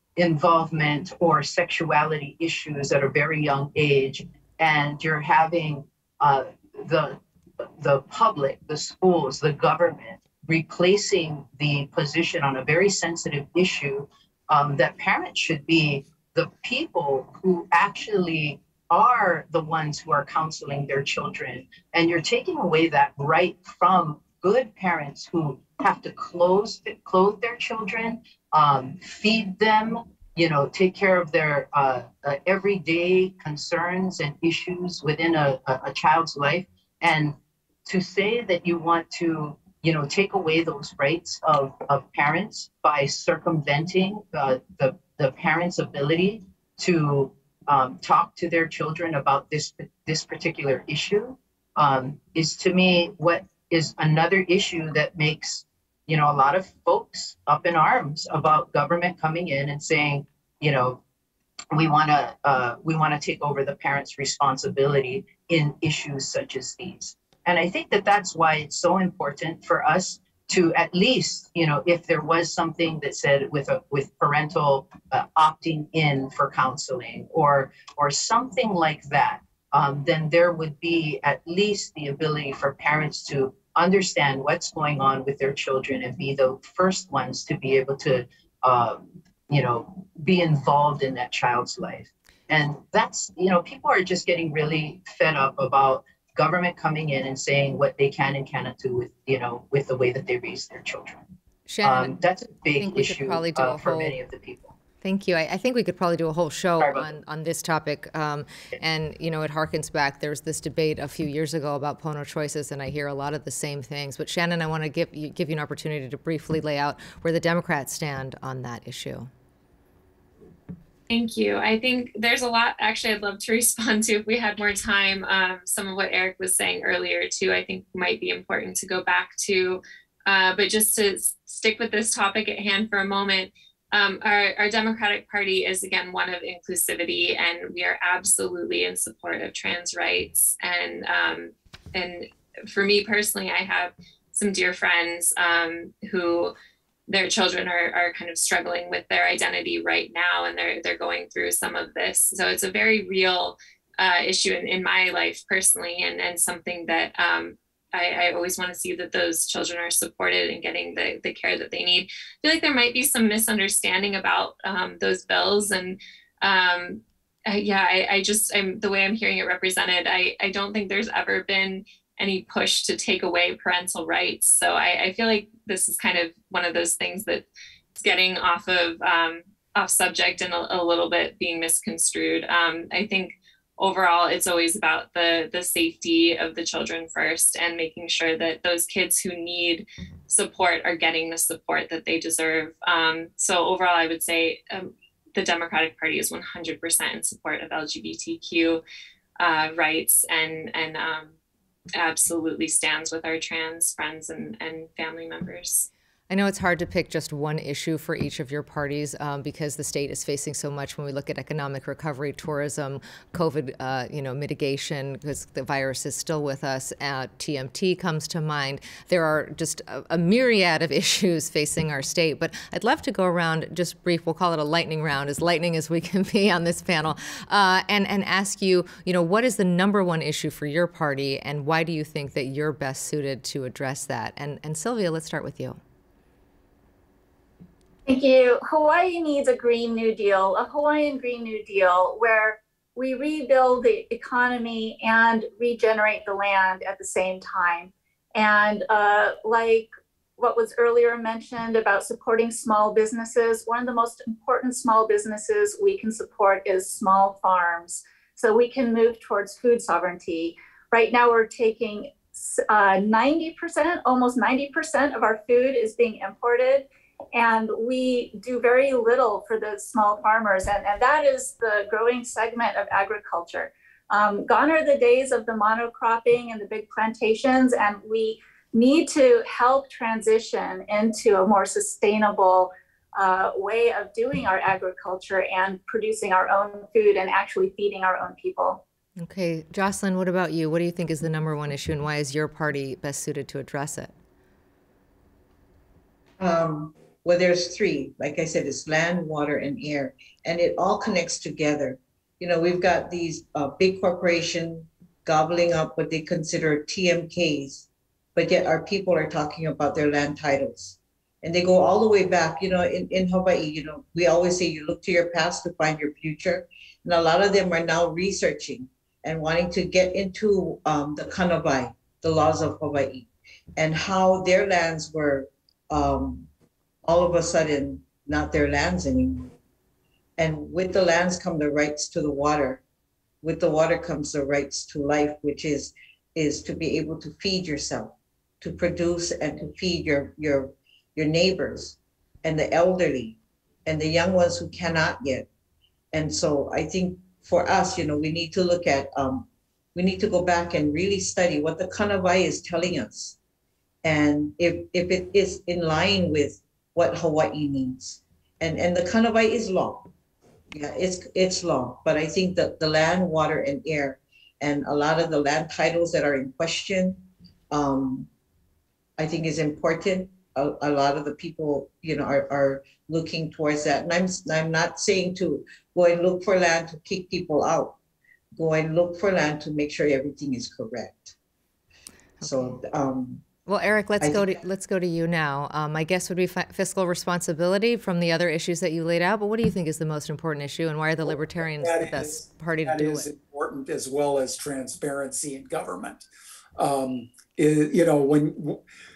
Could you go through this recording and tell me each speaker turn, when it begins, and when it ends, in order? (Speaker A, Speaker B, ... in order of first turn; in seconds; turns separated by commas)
Speaker A: 0.1-61.0, Speaker A: 61.7-101.2, Speaker B: 101.7-104.2, Speaker A: 101.8-104.8, Speaker B: 105.0-119.3, Speaker A: 106.8-107.1, Speaker C: 121.1-146.5, Speaker C: 147.1-177.4, Speaker C: 178.0-198.8, Speaker C: 199.4-201.3, Speaker C: 201.9-205.9, Speaker B: 206.3-235.8, Speaker D: 238.1-288.8, Speaker B: 289.2-294.1, Speaker E: 296.4-326.5, Speaker E: 327.0-329.5, Speaker E: 330.4-332.8, Speaker E: 333.4-345.5, Speaker E: 346.1-353.4, Speaker E: 354.0-360.1, Speaker E: 360.7-367.2, Speaker E: 367.7-368.3, Speaker E: 369.2-378.0, Speaker E: 378.5-381.3, Speaker B: 382.4-382.8, Speaker E: 382.4-383.4, Speaker B: 383.6-393.3, Speaker E: 384.2-384.6, Speaker F: 391.2-396.2, Speaker F: 396.8-398.8